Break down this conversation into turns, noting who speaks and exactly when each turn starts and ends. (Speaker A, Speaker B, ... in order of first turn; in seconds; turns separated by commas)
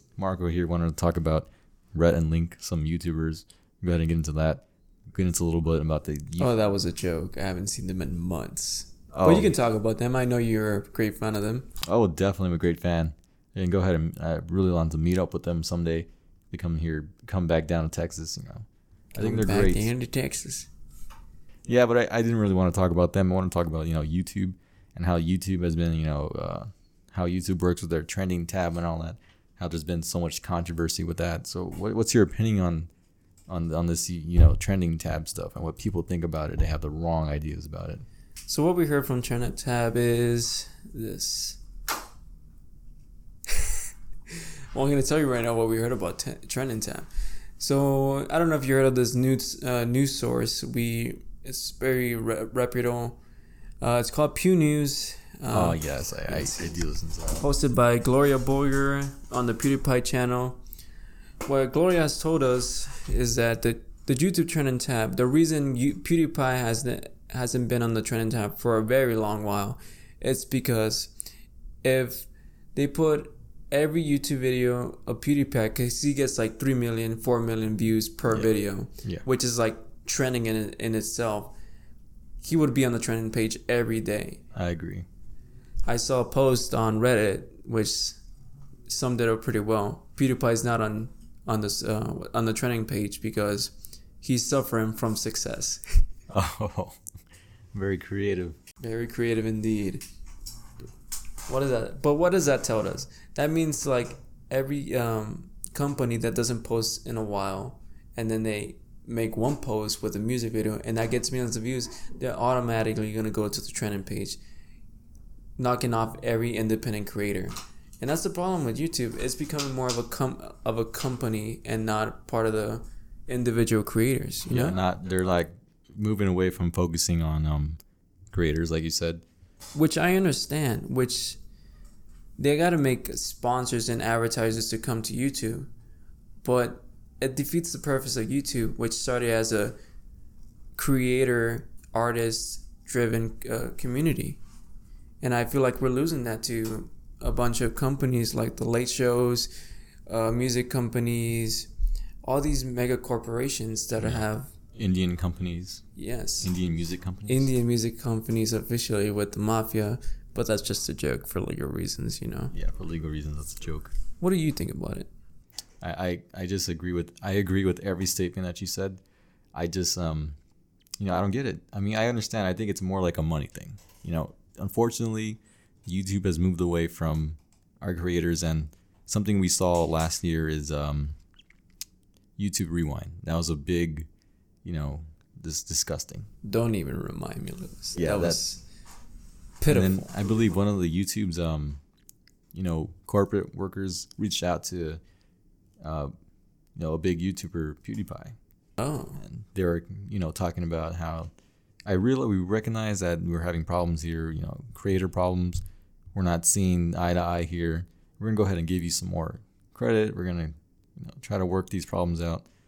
Speaker A: 0.2-6.5, Speaker B: 6.4-11.7, Speaker A: 9.1-9.5, Speaker A: 11.8-18.6, Speaker B: 19.1-20.7, Speaker A: 19.2-19.9, Speaker A: 21.7-32.9, Speaker A: 33.5-38.0, Speaker B: 38.5-41.6, Speaker B: 44.3-47.1, Speaker B: 47.6-53.2, Speaker B: 53.8-56.8, Speaker A: 55.5-57.5, Speaker B: 57.4-60.6, Speaker B: 61.4-71.1, Speaker B: 71.8-81.5, Speaker B: 82.4-84.4, Speaker A: 84.5-85.0, Speaker B: 85.8-88.2, Speaker B: 88.9-96.0, Speaker A: 96.3-97.0, Speaker A: 97.7-98.6, Speaker B: 98.8-100.0, Speaker B: 101.5-114.4, Speaker B: 115.6-124.8, Speaker A: 124.5-127.8, Speaker A: 128.3-129.2, Speaker B: 129.7-131.4, Speaker B: 132.4-135.7, Speaker B: 136.4-139.7, Speaker B: 140.8-144.4, Speaker B: 145.2-149.5, Speaker B: 150.1-151.7, Speaker B: 152.2-154.5, Speaker A: 154.0-154.2, Speaker A: 154.7-155.8, Speaker B: 155.9-156.5, Speaker A: 156.4-157.5, Speaker B: 157.3-162.5, Speaker A: 162.5-163.9, Speaker B: 164.2-165.1, Speaker A: 165.8-169.0, Speaker A: 169.5-170.3, Speaker A: 171.0-181.2, Speaker A: 182.4-184.1, Speaker A: 184.6-186.3, Speaker B: 186.4-188.6, Speaker A: 187.9-188.4, Speaker B: 189.6-190.1, Speaker A: 189.7-191.8, Speaker A: 192.5-195.0, Speaker A: 195.8-196.1, Speaker A: 196.8-198.3, Speaker B: 198.8-199.2, Speaker A: 199.2-201.3, Speaker A: 201.8-205.6, Speaker A: 206.1-212.4